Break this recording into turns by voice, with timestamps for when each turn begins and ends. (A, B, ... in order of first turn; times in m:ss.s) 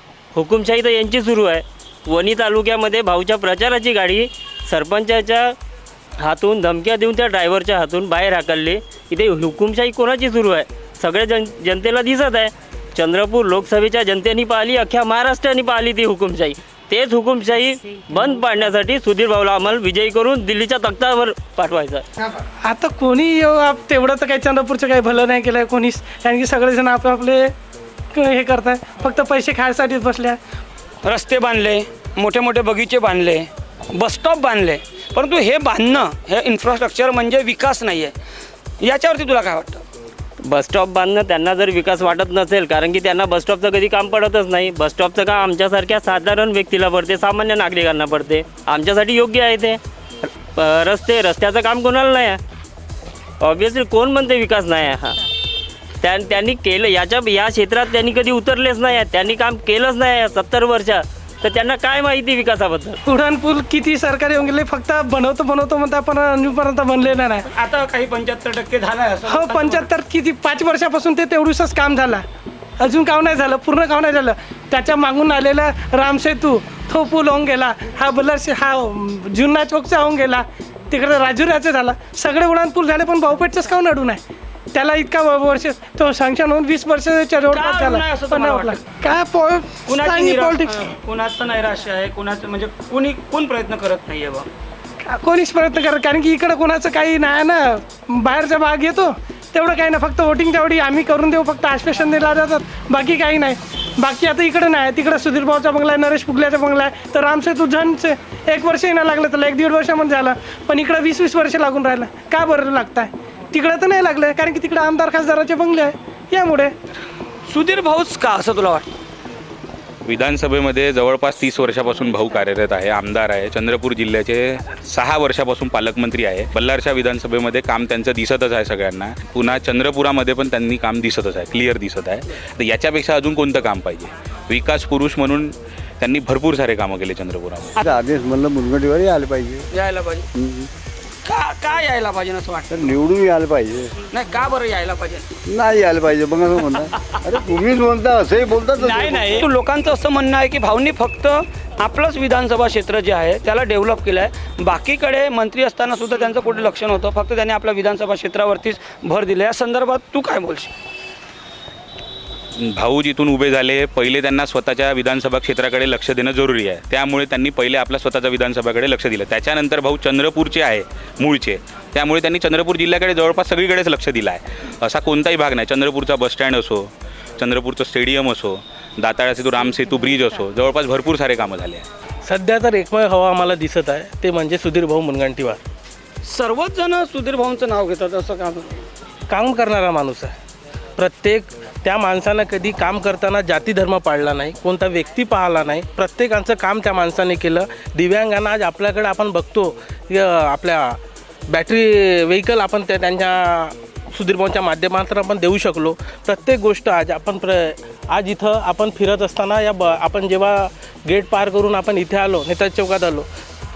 0:00.4-0:05.5 A
0:06.2-0:22.0 A
0:22.6-0:27.5 B
0:28.1-0:30.4 B
0:31.0-0:38.1 C
0:38.8-0:39.8 C
0:40.4-0:49.8 A
0:50.6-0:52.4 A
0:53.4-0:55.2 A
0:56.0-1:03.0 A
1:03.1-1:07.5 B
1:07.5-1:09.9 C
1:09.3-1:12.2 B
1:12.8-1:24.2 B
1:24.7-1:30.8 B
1:27.5-1:28.8 C
1:29.9-1:34.5 C
1:35.1-1:56.7 B
1:57.5-1:58.9 C
2:00.1-2:17.7 D
2:17.8-2:19.6 E
2:19.7-2:20.3 C
2:20.4-2:20.7 E
2:21.2-2:22.9 C
2:22.7-2:23.9 E
2:24.1-2:25.3 C
2:25.5-2:29.4 E
2:28.8-2:40.7 C
2:42.6-3:01.8 D
3:02.2-3:05.6 F
3:06.2-3:08.8 C
3:09.3-3:10.4 F
3:11.0-3:33.3 F